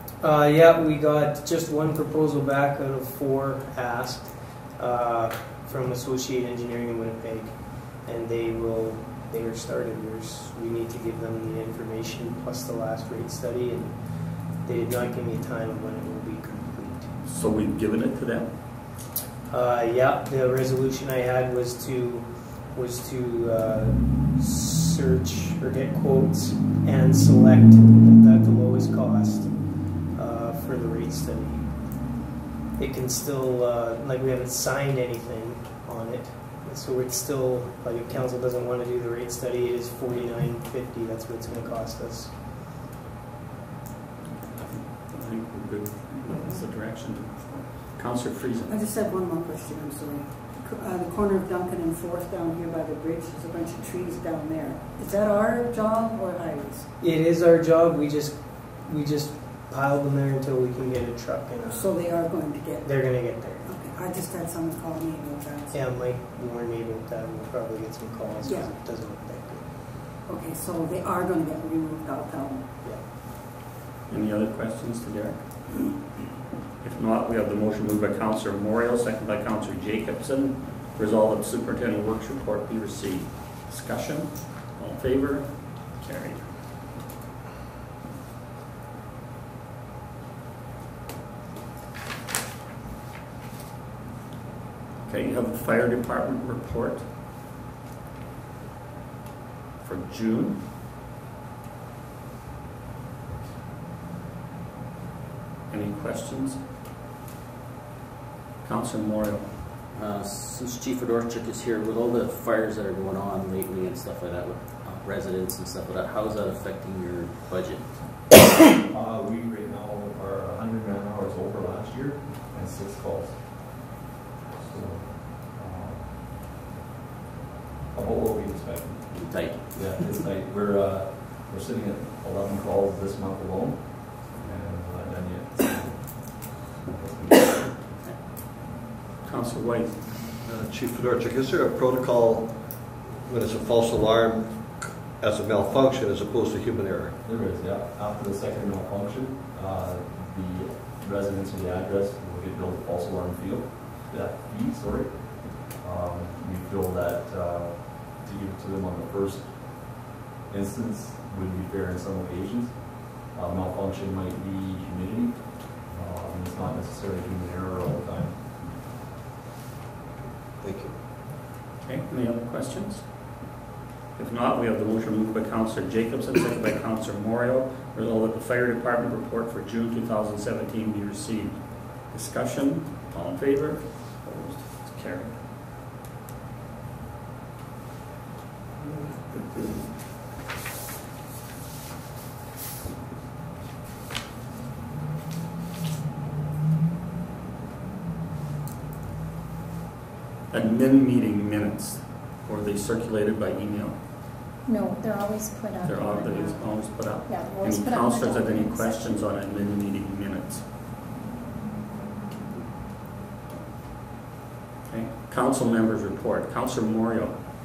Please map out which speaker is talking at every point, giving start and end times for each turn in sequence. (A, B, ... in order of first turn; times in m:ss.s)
0:00.2-0:17.2 A
0:17.2-0:18.5 B
0:19.5-0:32.2 A
0:32.8-0:42.4 A
0:44.4-0:48.7 B
0:48.7-0:56.9 C
0:57.0-1:03.7 A
1:01.7-1:05.9 C
1:05.7-1:09.7 A
1:08.4-1:08.8 C
1:10.2-1:12.7 C
1:14.1-1:15.5 B
1:16.8-1:26.5 B
1:35.1-1:37.1 B
1:39.8-1:40.6 B
1:45.7-1:46.6 B
1:48.6-1:49.5 B
1:49.9-1:58.4 D
1:58.9-2:04.0 E
2:04.5-2:06.5 E
2:07.9-2:17.7 E
2:09.1-2:10.0 D
2:17.9-2:18.2 D
2:19.2-2:20.0 B
2:20.4-2:27.2 F
2:27.2-2:48.4 E
2:50.6-2:51.0 F
2:51.8-2:53.4 B
2:54.2-3:05.4 B
3:20.5-3:24.0 B
3:24.6-3:29.2 G
3:25.8-3:30.7 B
3:34.9-3:37.4 B